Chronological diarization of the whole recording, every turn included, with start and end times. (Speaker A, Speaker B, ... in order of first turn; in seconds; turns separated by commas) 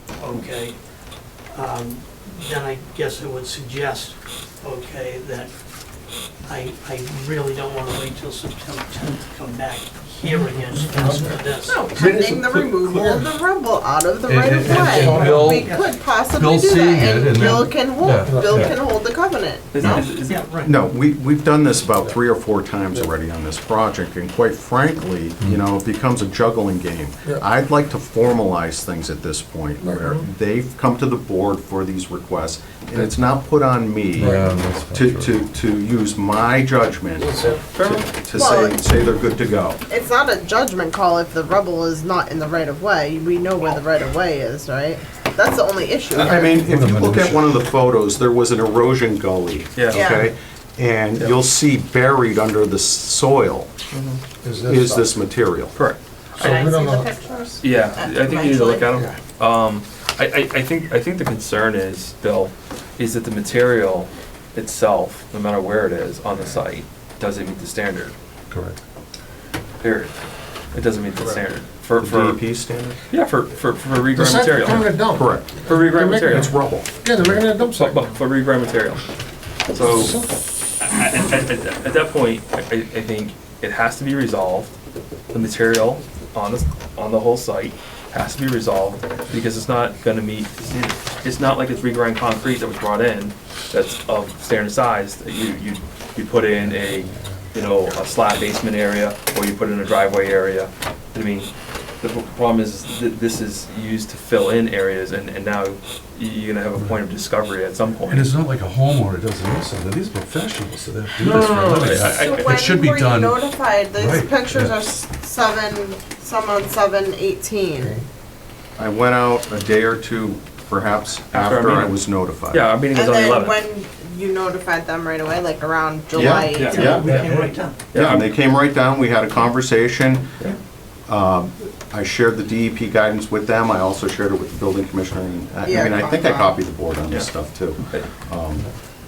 Speaker A: 0.2-0.8, Speaker A: 1.5-5.5, Speaker A: 6.5-11.9, Speaker B: 10.5-13.3, Speaker C: 11.6-20.0, Speaker D: 14.2-15.7, Speaker A: 14.7-15.8, Speaker B: 14.9-15.7, Speaker D: 16.3-18.8, Speaker B: 17.3-17.6, Speaker B: 18.2-18.6, Speaker E: 19.7-20.4, Speaker A: 19.9-20.7, Speaker F: 20.6-39.8, Speaker D: 25.4-25.6, Speaker B: 29.8-30.2, Speaker D: 34.1-35.4, Speaker B: 34.2-34.5, Speaker B: 37.2-37.6, Speaker E: 37.7-38.1, Speaker C: 38.4-38.8, Speaker C: 39.9-46.6, Speaker F: 46.1-53.7, Speaker D: 46.6-47.5, Speaker E: 49.8-50.3, Speaker C: 49.9-50.3, Speaker E: 53.9-54.2, Speaker B: 54.4-55.1, Speaker F: 54.6-55.8, Speaker E: 55.7-56.5, Speaker C: 56.4-59.0, Speaker B: 56.4-57.2, Speaker E: 57.6-68.2, Speaker D: 68.5-68.8, Speaker E: 69.8-72.4, Speaker F: 72.0-73.1, Speaker E: 73.1-75.0, Speaker B: 74.1-78.0, Speaker F: 75.1-75.7, Speaker E: 75.6-76.6, Speaker F: 76.3-76.9, Speaker E: 77.6-79.0, Speaker E: 79.7-84.8, Speaker B: 79.9-80.3, Speaker E: 85.3-101.5, Speaker E: 102.0-108.4, Speaker D: 108.1-114.8, Speaker C: 111.2-118.0, Speaker E: 111.2-112.6, Speaker B: 117.8-118.1, Speaker F: 118.8-122.7, Speaker E: 121.3-123.6, Speaker C: 122.9-127.0, Speaker F: 126.1-127.3, Speaker E: 126.5-128.3, Speaker A: 126.7-127.8, Speaker F: 127.9-130.3, Speaker F: 131.1-138.7, Speaker C: 135.7-136.6